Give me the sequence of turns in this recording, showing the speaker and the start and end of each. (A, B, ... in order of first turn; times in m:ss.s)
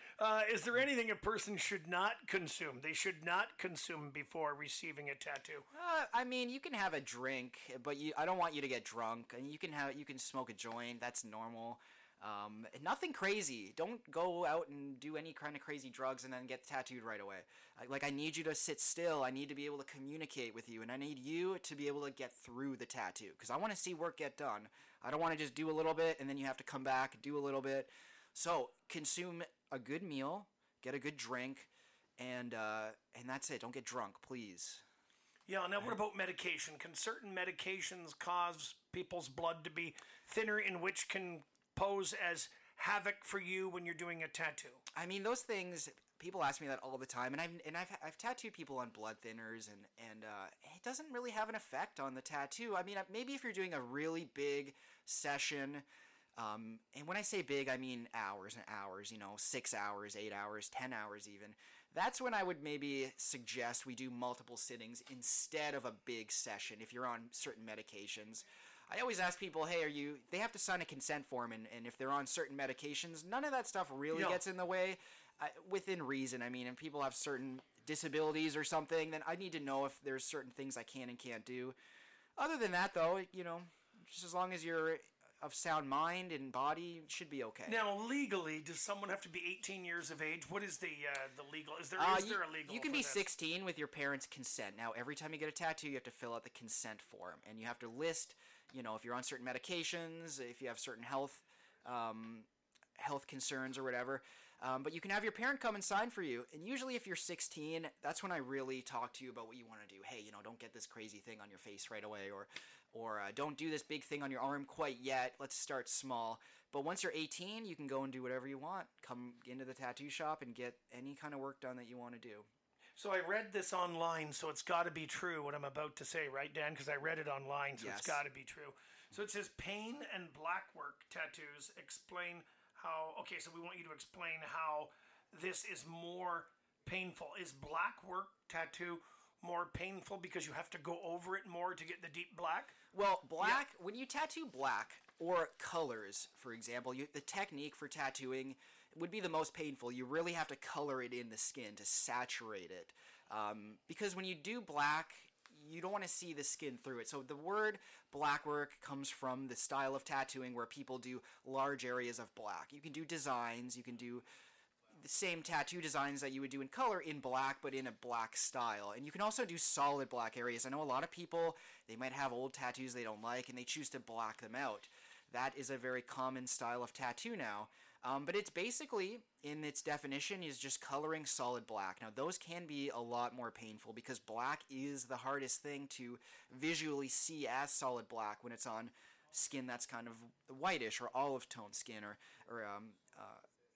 0:00.2-0:05.6 A
0:05.7-0:34.8 B
0:35.5-0:44.8 A
0:44.9-0:55.8 B
0:56.4-1:21.7 B
1:14.1-1:14.4 A
1:22.4-1:27.8 B
1:27.7-1:33.2 A
1:32.0-2:02.5 B
2:03.0-2:22.8 A
2:07.8-2:08.2 B
2:22.9-2:44.2 B
2:44.9-3:13.4 B